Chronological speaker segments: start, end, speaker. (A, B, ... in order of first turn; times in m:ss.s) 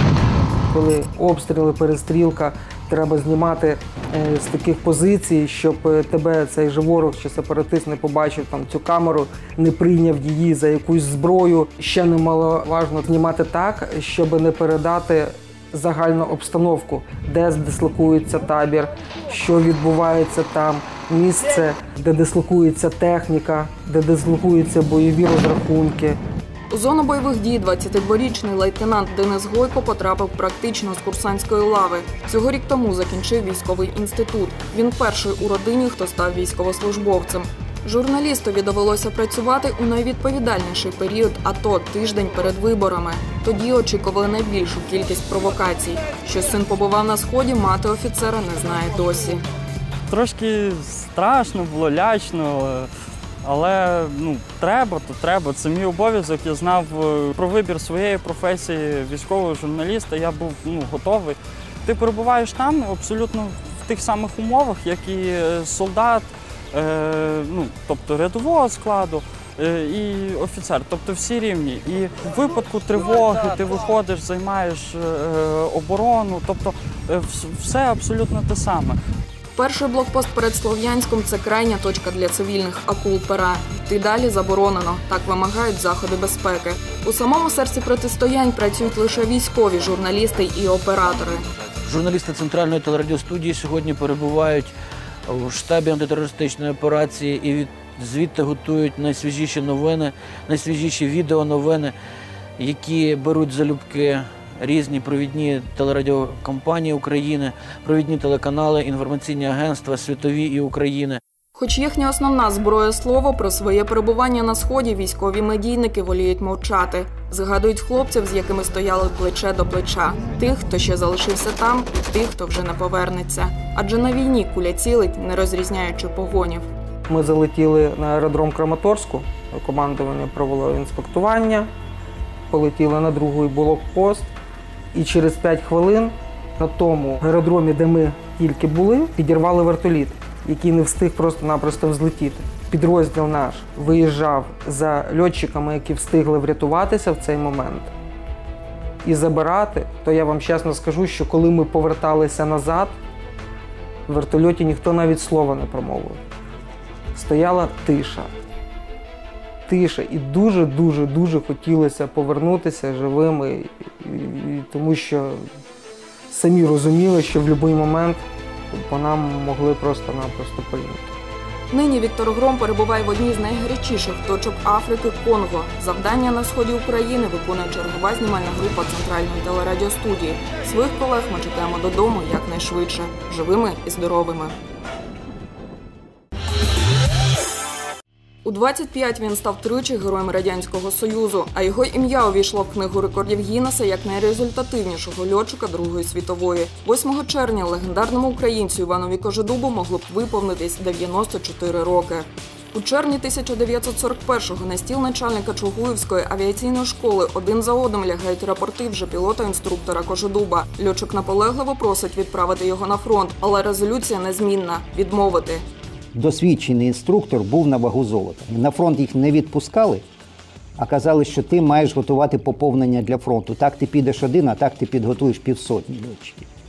0:00.7-0:26.2 A
0:26.7-0:49.4 B
0:50.1-0:52.9 C
0:53.4-1:19.0 C
1:19.6-1:31.5 B
1:31.8-1:34.7 D
1:35.3-1:41.9 D
1:42.6-1:51.2 D
1:51.6-2:06.6 B
2:07.1-2:11.7 A
2:12.5-2:14.3 A
2:14.9-2:27.9 A
2:29.0-2:33.0 A
2:34.1-2:36.2 A
2:37.1-2:38.3 A
2:39.7-2:45.4 A
2:46.3-2:51.2 A
2:51.7-3:04.6 B
3:08.4-3:35.6 B
3:36.1-3:40.1 E
3:40.8-3:46.5 E